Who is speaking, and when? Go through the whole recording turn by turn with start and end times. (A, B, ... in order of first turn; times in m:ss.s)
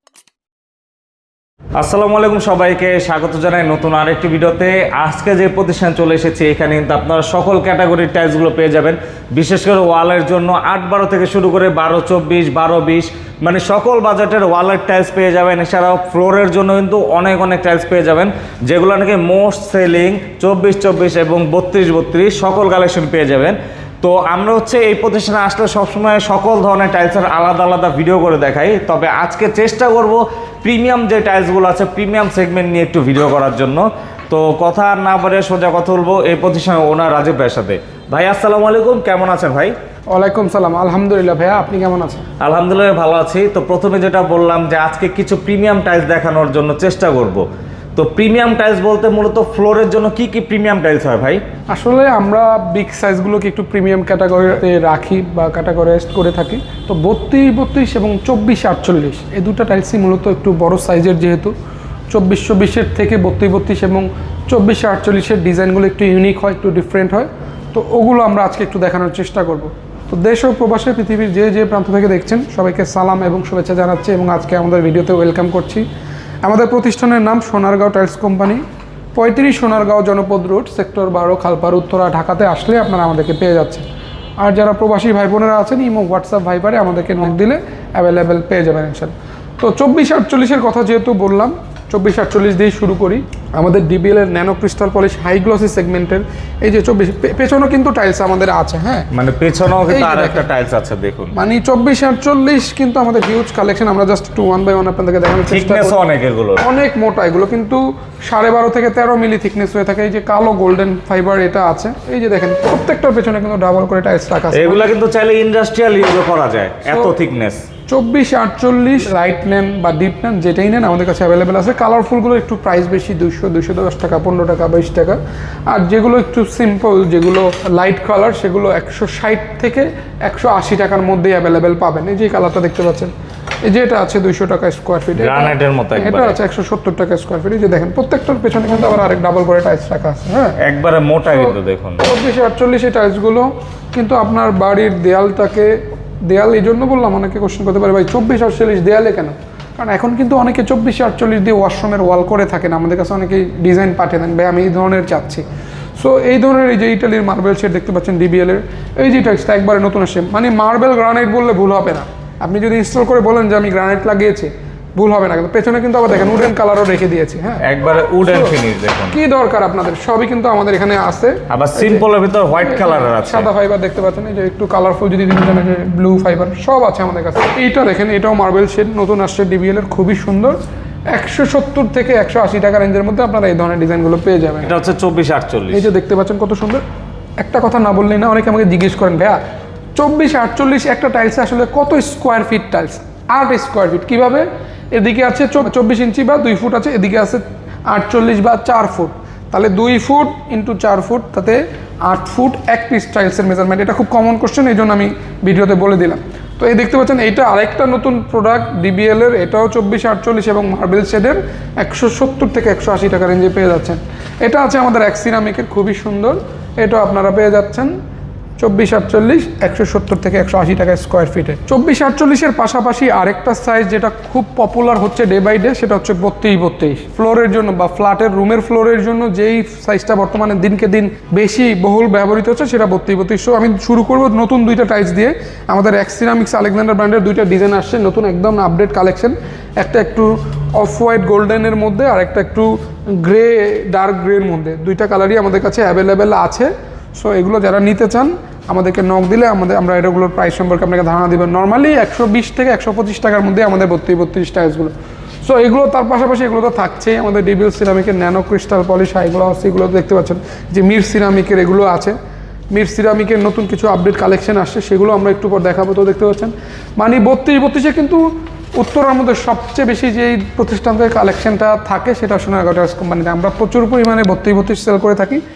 0:01.8-0:39.7 A
0:40.1-0:42.2 B
0:42.4-0:47.4 A
0:48.0-0:51.4 A
0:51.7-1:01.5 B
1:02.1-1:15.8 B
1:16.4-1:18.6 B
1:19.1-1:23.8 B
1:24.4-1:39.1 B
1:39.1-1:41.3 A
1:39.9-1:40.4 B
1:41.3-1:46.0 B
1:45.5-1:46.6 A
1:46.6-1:54.9 B
1:54.5-1:57.6 A
1:56.9-1:57.1 B
1:57.9-2:13.1 B
2:13.6-2:20.6 B
2:15.2-2:16.4 A
2:20.6-2:22.1 A
2:21.3-2:25.7 B
2:26.3-2:35.4 B
2:36.0-2:47.6 B
2:47.6-2:49.2 A
2:48.2-2:48.5 B
2:49.1-2:52.0 B
2:51.5-2:53.5 A
2:52.6-3:00.6 B
3:01.1-3:04.7 B
3:04.6-3:05.8 A
3:05.7-3:06.8 B
3:07.4-3:09.4 B
3:10.0-3:37.9 B
3:38.6-4:14.9 B
4:15.4-4:22.2 B
4:22.7-4:28.2 B
4:28.8-4:35.4 B